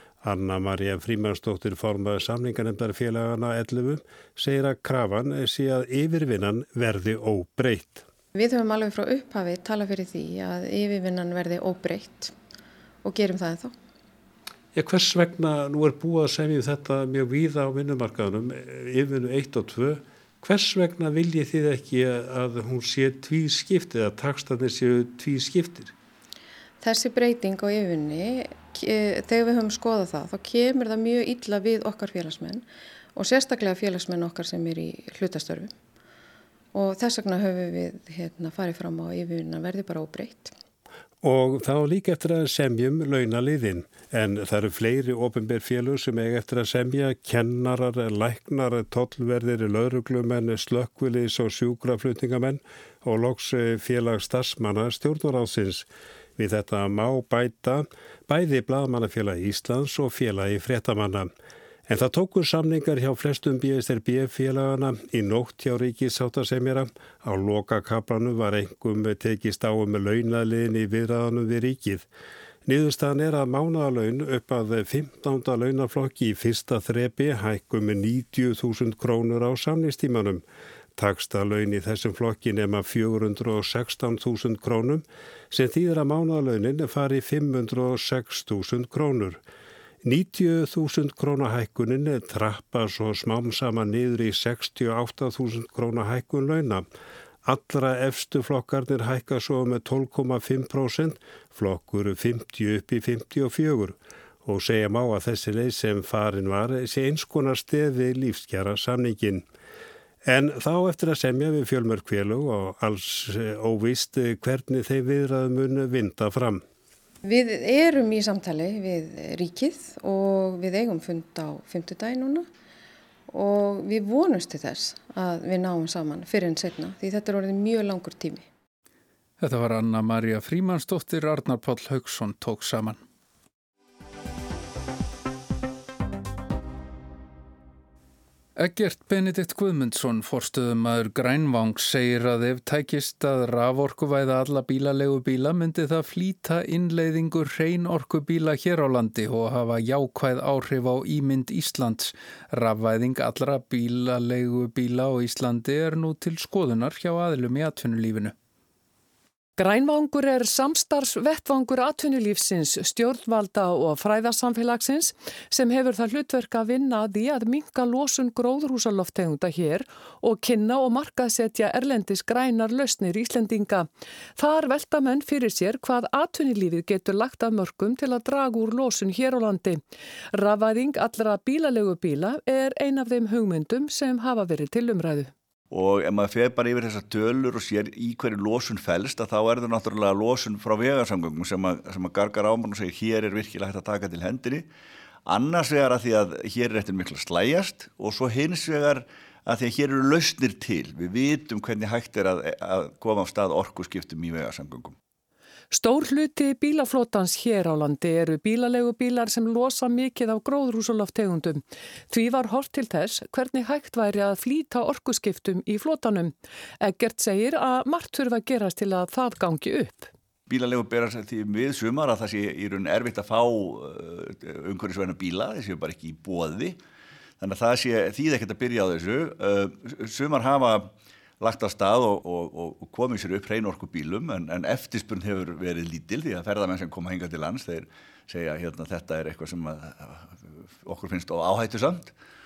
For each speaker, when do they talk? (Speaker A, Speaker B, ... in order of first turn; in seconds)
Speaker A: 0.2-8.1, 14.7-25.9, 41.2-61.3, 61.9-72.1, 72.7-80.4, 81.0-89.4, 90.0-96.8, 97.5-109.5, 110.2-116.6
Speaker B: 8.3-12.3, 13.0-13.7, 26.8-35.7, 36.7-40.5, 117.2-122.5, 123.3-128.5
Speaker C: 129.4-133.0, 138.6-158.3
Speaker D: 159.6-179.8, 180.3-185.3, 205.7-220.1
Speaker E: 185.7-194.7, 195.3-204.9, 220.5-226.8, 227.4-242.1